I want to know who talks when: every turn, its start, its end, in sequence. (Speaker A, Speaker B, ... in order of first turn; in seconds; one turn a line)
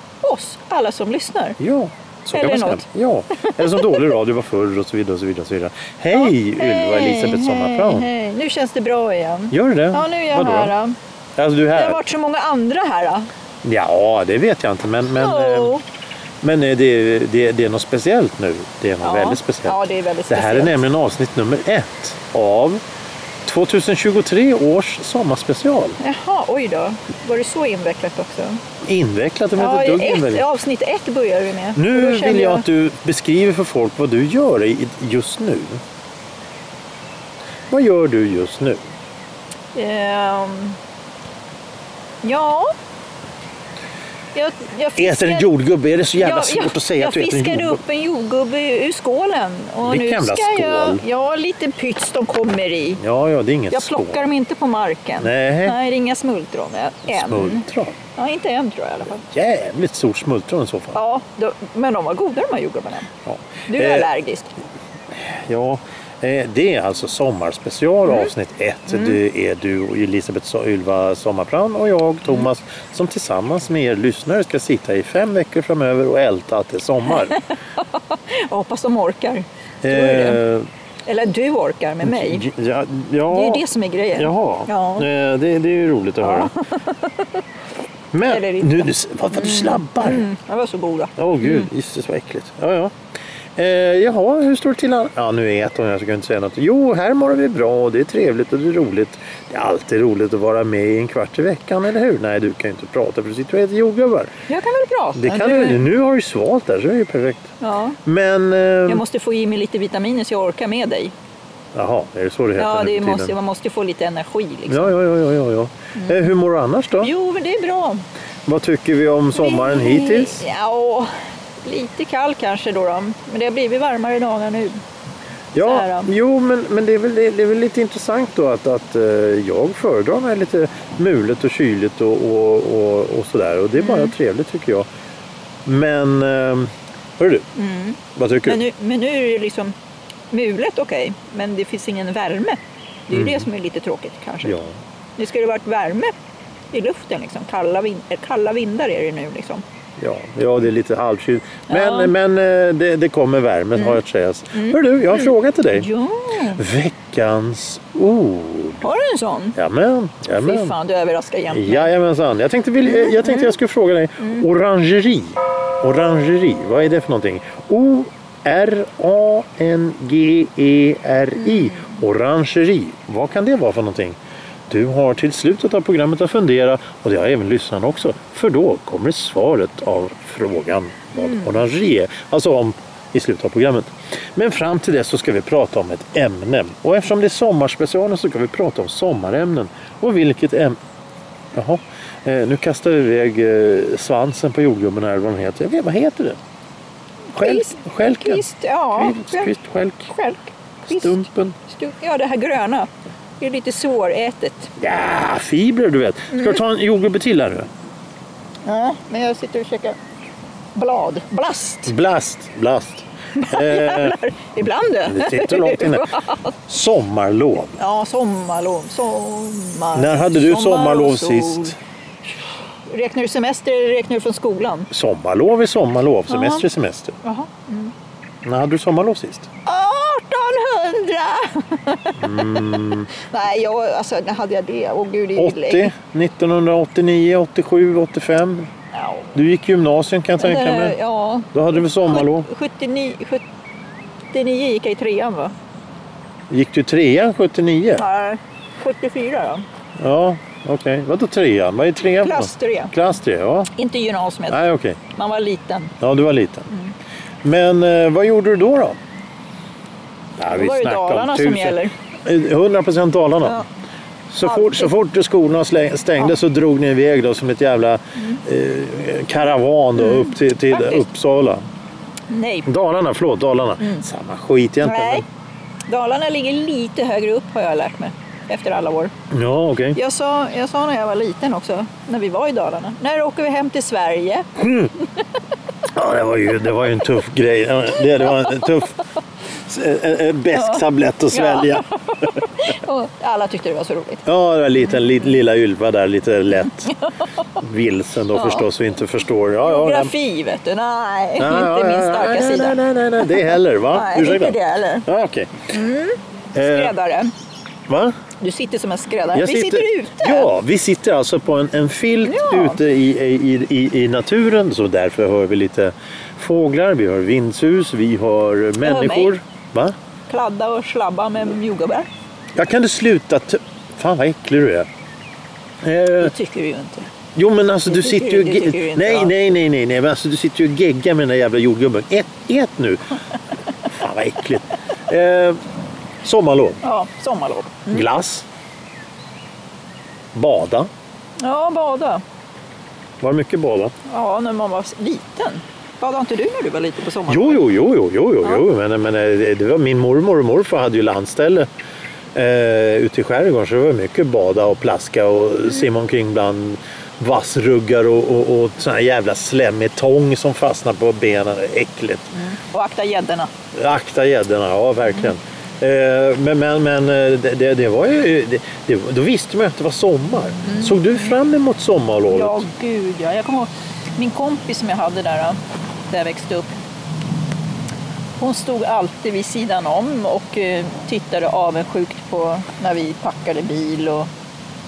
Speaker A: 0.2-1.6
Speaker B: 1.6-8.1
Speaker A: 2.3-4.1
Speaker A: 6.1-11.0
Speaker B: 9.5-10.7
Speaker B: 11.4-12.0
Speaker A: 11.7-13.3
Speaker B: 13.6-15.8
Speaker A: 15.0-15.8
Speaker B: 16.4-19.8
Speaker A: 19.0-20.8
Speaker B: 20.3-22.8
Speaker B: 23.4-26.0
Speaker A: 26.0-28.6
Speaker B: 28.9-30.4
Speaker A: 29.6-32.6
Speaker B: 31.8-35.8
Speaker B: 37.7-38.8
Speaker A: 39.7-40.8
Speaker A: 42.2-42.7
Speaker A: 44.3-45.5
Speaker B: 45.0-47.8
Speaker A: 46.1-53.0
Speaker B: 49.9-51.0
Speaker B: 53.0-54.2
Speaker A: 53.7-59.2
Speaker B: 55.2-55.8
Speaker B: 57.1-58.0
Speaker B: 59.3-61.0
Speaker A: 60.9-63.1
Speaker B: 63.3-64.1
Speaker A: 63.7-64.5
Speaker B: 65.1-77.4
Speaker A: 68.9-69.2
Speaker A: 77.2-80.4
Speaker B: 79.8-80.7
Speaker A: 81.1-82.4
Speaker B: 82.0-83.6
Speaker A: 83.3-85.1
Speaker B: 84.2-86.5
Speaker A: 86.2-87.3
Speaker B: 88.1-90.3
Speaker A: 88.2-91.7
Speaker B: 91.2-92.9
Speaker B: 93.6-104.3
Speaker A: 104.5-105.8
Speaker B: 105.2-107.5
Speaker A: 107.6-108.0
Speaker B: 108.0-109.0
Speaker A: 108.9-111.1
Speaker B: 111.7-113.3
Speaker A: 112.6-115.0
Speaker B: 114.7-117.1
Speaker A: 116.0-116.3
Speaker A: 117.0-118.0
Speaker B: 118.5-120.5
Speaker A: 119.3-121.1
Speaker A: 121.6-124.8
Speaker B: 125.5-134.9
Speaker A: 125.6-126.1
Speaker A: 133.8-134.1
Speaker B: 135.7-137.4
Speaker A: 137.6-139.7
Speaker B: 138.2-138.6
Speaker A: 140.3-144.6
Speaker B: 143.1-143.5
Speaker B: 144.4-144.7
Speaker A: 145.2-146.1
Speaker A: 146.7-149.6
Speaker B: 150.0-155.9
Speaker A: 151.7-152.1
Speaker A: 153.8-154.0
Speaker A: 154.5-156.6
Speaker B: 156.6-158.8
Speaker A: 158.8-159.6
Speaker B: 159.6-160.8
Speaker A: 160.3-161.9
Speaker B: 161.5-174.2
Speaker A: 162.9-163.6
Speaker A: 171.4-172.0
Speaker B: 174.7-190.8
Speaker A: 181.2-181.6
Speaker B: 191.5-196.4
Speaker A: 197.3-199.5
Speaker B: 197.4-200.1
Speaker A: 200.1-204.7
Speaker B: 200.9-201.6
Speaker B: 204.8-207.7
Speaker A: 206.3-206.6
Speaker A: 208.7-210.0
Speaker A: 210.8-211.9
Speaker B: 211.9-214.2
Speaker A: 213.3-216.5
Speaker B: 215.1-216.1
Speaker B: 216.7-217.8
Speaker A: 217.8-221.8
Speaker B: 219.9-221.8
Speaker A: 222.4-224.9
Speaker B: 224.9-227.2
Speaker A: 226.3-226.7
Speaker A: 227.2-227.9
Speaker B: 228.4-229.5
Speaker A: 229.7-235.9
Speaker B: 232.2-233.1
Speaker B: 235.4-238.7
Speaker A: 238.9-239.3
Speaker B: 239.3-241.0
Speaker A: 240.4-243.4
Speaker B: 241.5-242.5
Speaker A: 244.3-245.5
Speaker B: 246.5-248.0
Speaker A: 248.0-249.7
Speaker B: 250.0-253.7
Speaker A: 252.2-252.9
Speaker A: 253.8-255.9
Speaker B: 254.5-255.0
Speaker B: 256.0-256.7
Speaker B: 257.4-259.0
Speaker B: 260.4-263.6
Speaker A: 260.5-261.9
Speaker B: 264.3-271.6
Speaker A: 264.4-264.9
Speaker A: 270.0-271.1
Speaker A: 272.3-272.7
Speaker B: 272.7-275.2
Speaker A: 274.8-275.2
Speaker A: 275.9-279.1
Speaker B: 279.3-280.0
Speaker A: 279.9-284.5
Speaker B: 284.6-284.9
Speaker B: 285.9-289.0
Speaker B: 289.7-291.9
Speaker A: 290.5-294.2
Speaker B: 294.3-296.9
Speaker A: 296.6-297.2
Speaker B: 297.6-300.1
Speaker A: 298.3-298.7
Speaker A: 299.6-305.1
Speaker B: 301.4-305.7
Speaker A: 305.7-307.3
Speaker B: 306.6-306.9
Speaker B: 307.9-308.1
Speaker A: 308.4-310.5
Speaker B: 309.3-319.9
Speaker A: 312.2-312.8
Speaker A: 318.8-319.4
Speaker A: 320.3-322.1
Speaker B: 322.6-324.9
Speaker B: 325.8-326.3
Speaker A: 326.2-327.1
Speaker B: 327.4-333.1
Speaker A: 327.9-329.4
Speaker B: 333.9-335.6
Speaker B: 336.2-336.8
Speaker A: 336.8-338.1
Speaker B: 337.9-338.4
Speaker B: 340.3-340.9
Speaker A: 341.4-342.2
Speaker B: 343.2-343.9
Speaker A: 344.1-347.6
Speaker B: 347.3-351.7
Speaker B: 352.4-362.3
Speaker A: 362.3-363.5
Speaker B: 363.8-372.6
Speaker A: 370.6-371.3
Speaker A: 372.3-375.6
Speaker A: 376.1-376.7
Speaker A: 378.4-384.3